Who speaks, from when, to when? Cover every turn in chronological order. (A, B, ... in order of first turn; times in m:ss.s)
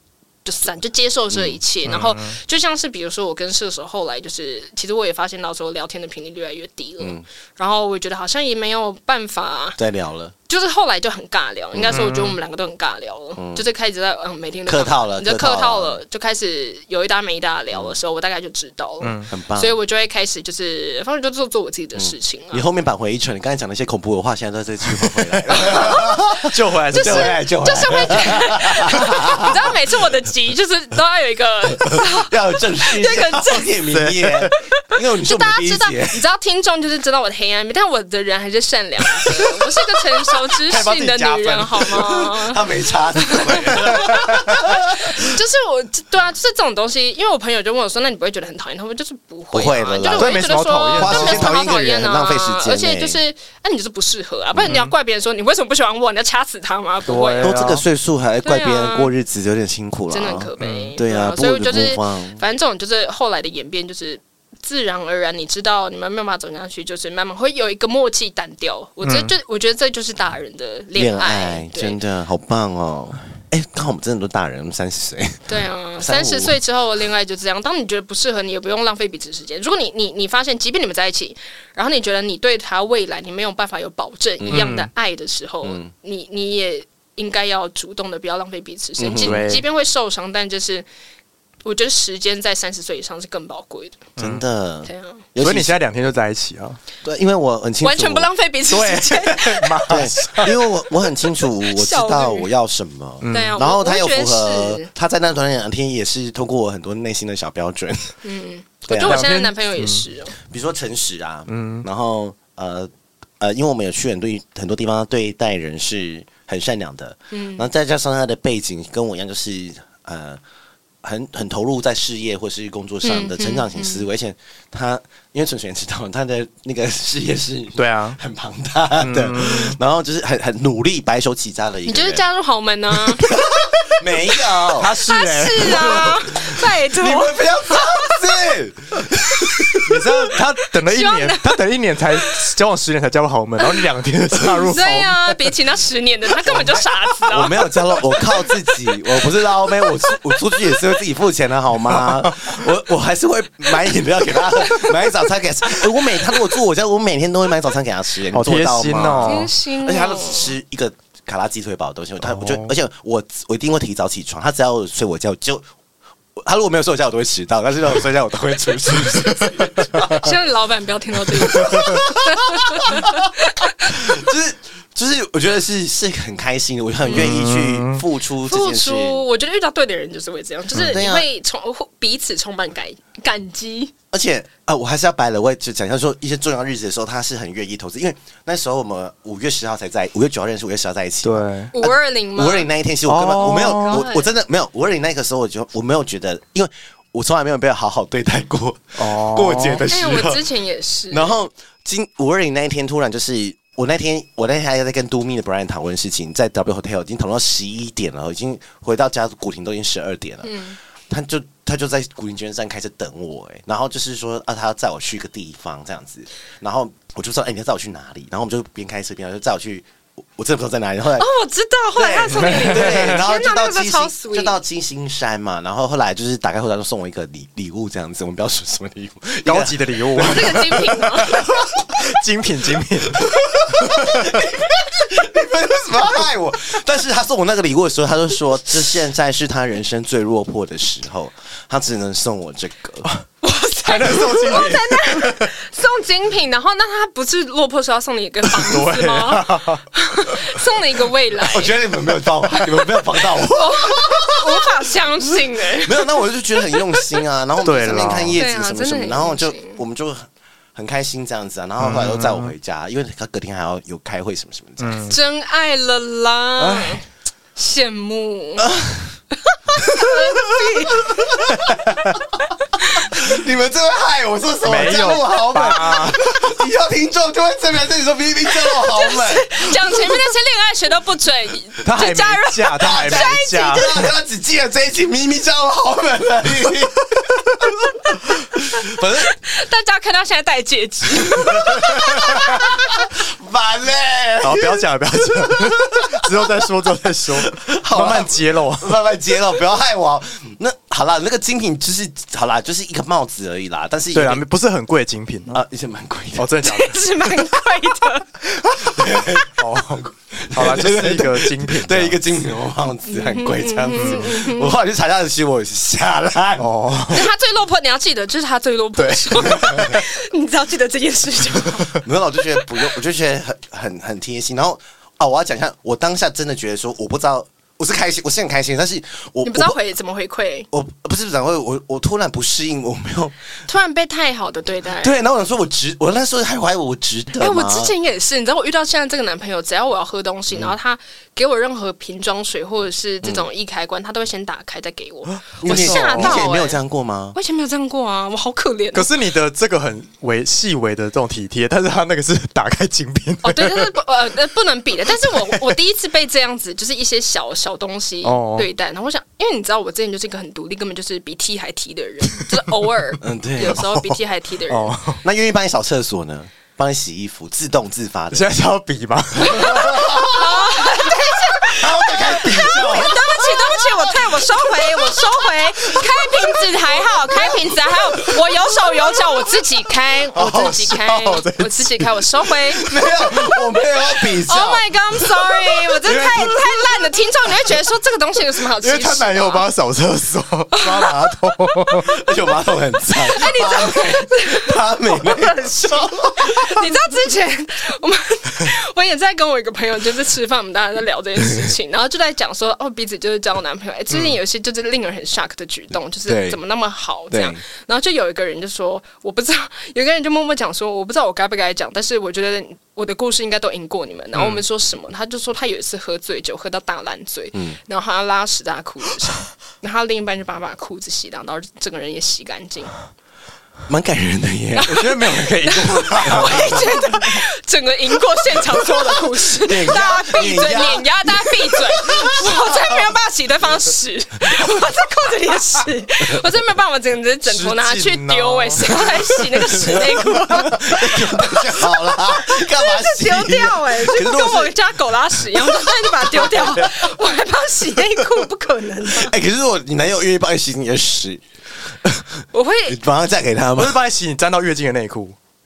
0:00.4-0:09.8 A
0:01.3-0:01.6 B
0:01.8-0:02.4 C
0:09.8-0:10.3 B
0:10.5-0:22.6 A
0:11.7-0:12.0 B
0:11.9-0:12.4 C
0:13.4-0:13.6 B
0:14.6-0:16.0 B
0:19.0-0:19.3 C
0:19.3-0:19.7 B
0:21.9-0:29.7 B
0:24.9-0:25.8 C
0:25.5-0:26.4 A
0:26.4-0:27.4 C
0:26.9-0:33.8 A
0:31.8-0:36.2 B
0:33.9-0:34.5 C
0:34.8-0:57.6 A
0:40.6-0:42.2 C
0:41.9-0:45.2 B
0:43.7-0:44.6 C
0:49.5-0:53.2 B
0:50.1-0:51.6 C
0:54.5-0:54.8 B
0:54.6-0:54.9 C
0:57.0-0:57.8 C
0:57.4-1:02.4 B
0:58.4-0:59.1 A
1:00.1-1:12.0 A
1:00.6-1:00.9 C
1:09.0-1:09.3 C
1:10.9-1:16.6 B
1:15.5-1:30.8 A
1:24.4-1:24.7 B
1:24.5-1:24.9 C
1:25.6-1:25.9 B
1:29.0-1:29.5 B
1:29.2-1:29.6 C
1:31.6-1:34.1 A
1:34.2-1:34.4 C
1:34.2-1:35.8 B
1:34.8-1:35.2 A
1:35.4-1:36.8 C
1:37.0-1:38.3 B
1:37.8-1:39.8 A
1:38.7-1:40.6 C
1:39.8-1:48.2 B
1:41.2-1:42.5 A
1:43.2-1:43.6 C
1:43.3-1:44.9 A
1:48.2-1:50.3 A
1:48.9-1:49.3 B
1:49.0-1:50.0 C
1:50.4-2:00.4 B
1:51.5-1:51.8 C
1:57.3-1:57.7 A
2:01.0-2:12.2 B
2:03.0-2:04.0 A
2:07.8-2:08.2 C
2:09.0-2:09.8 C
2:11.8-2:13.3 A
2:13.2-2:14.9 B
2:14.8-2:16.2 C
2:15.0-2:18.4 A
2:15.6-2:19.9 B
2:19.3-2:19.9 A
2:19.8-2:25.4 C
2:20.8-2:21.6 A
2:24.7-2:29.0 A
2:26.4-2:45.6 B
2:31.9-2:32.5 C
2:38.3-2:39.5 C
2:39.2-2:40.5 A
2:42.2-2:42.7 C
2:46.4-2:50.3 B
2:50.0-2:54.2 A
2:51.3-2:59.2 B
2:51.7-2:52.0 C
2:57.1-2:57.4 A
2:57.1-2:58.0 C
2:58.4-3:03.9 A
3:00.7-3:01.0 C
3:00.7-3:01.3 B
3:04.1-3:20.4 B
3:11.2-3:11.7 C
3:11.7-3:12.7 A
3:13.1-3:14.0 C
3:13.6-3:14.3 A
3:19.0-3:19.8 C
3:19.9-3:21.4 A
3:21.1-3:30.6 B
3:30.4-3:30.8 A
3:31.1-3:41.3 B
3:41.2-3:44.6 A
3:41.9-3:51.8 B
3:42.4-3:43.2 C
3:49.4-3:54.4 C
3:50.2-3:51.4 A
3:53.1-4:03.1 B
4:03.4-4:11.8 A
4:03.8-4:05.5 C
4:08.5-4:09.8 C
4:11.4-4:25.1 B
4:12.6-4:17.2 A
4:17.6-4:18.4 C
4:18.3-4:19.8 A
4:21.8-4:22.5 C
4:24.8-4:25.2 C
4:25.1-4:27.0 A
4:26.6-4:27.0 B
4:27.6-4:28.7 A
4:28.6-4:29.2 B
4:29.4-4:31.6 A
4:29.7-4:32.0 B
4:31.5-4:32.2 C
4:32.4-4:33.3 A
4:33.1-4:40.2 B
4:34.6-4:36.3 C
4:38.6-4:44.0 A
4:41.8-4:44.1 C
4:42.8-4:47.7 B
4:48.6-4:49.3 B
4:48.8-4:52.8 A
4:51.2-4:56.5 B
4:52.0-4:52.5 C
4:54.4-4:59.0 C
4:57.4-5:04.4 B
5:04.1-5:05.6 C
5:05.5-5:06.5 B
5:06.4-5:07.0 C
5:06.6-5:08.3 A
5:08.8-5:16.7 B
5:09.2-5:12.2 C
5:13.1-5:14.7 A
5:13.9-5:14.2 C
5:16.6-5:17.3 C
5:17.1-5:22.0 A
5:19.0-5:20.0 C
5:19.4-5:20.0 B
5:21.9-5:29.8 B
5:29.4-5:30.7 A
5:30.7-5:33.3 B
5:33.7-5:35.2 A
5:35.0-5:37.9 B
5:37.4-5:46.8 A
5:40.5-5:40.8 B
5:43.2-5:43.5 B
5:45.5-5:46.4 C
5:45.6-5:47.4 B
5:47.3-5:49.1 A
5:48.9-5:53.9 C
5:53.4-6:04.9 A
5:55.2-5:55.8 C
5:58.2-5:58.7 C
6:03.2-6:03.8 B
6:03.6-6:05.2 C
6:05.2-6:08.5 B
6:08.3-6:10.4 C
6:09.4-6:23.0 A
6:09.5-6:10.7 B
6:11.7-6:14.2 B
6:11.7-6:13.1 C
6:15.6-6:17.6 B
6:20.3-6:23.4 C
6:22.8-6:24.8 B
6:24.0-6:29.6 A
6:26.0-6:26.6 B
6:28.8-6:32.1 C
6:30.7-6:31.4 A
6:32.0-6:36.7 B
6:33.1-7:02.9 A
6:44.1-6:44.4 C
6:46.2-6:46.6 B
6:47.3-6:47.6 B
6:54.3-6:54.6 C
7:03.9-7:05.0 B
7:04.7-7:29.3 A
7:04.9-7:06.8 C
7:06.1-7:07.0 B
7:09.6-7:13.0 B
7:17.4-7:21.0 C
7:19.8-7:24.8 B
7:25.7-7:26.9 B
7:29.1-7:31.4 B
7:32.0-7:34.0 B
7:32.5-7:33.0 A
7:33.8-7:35.4 C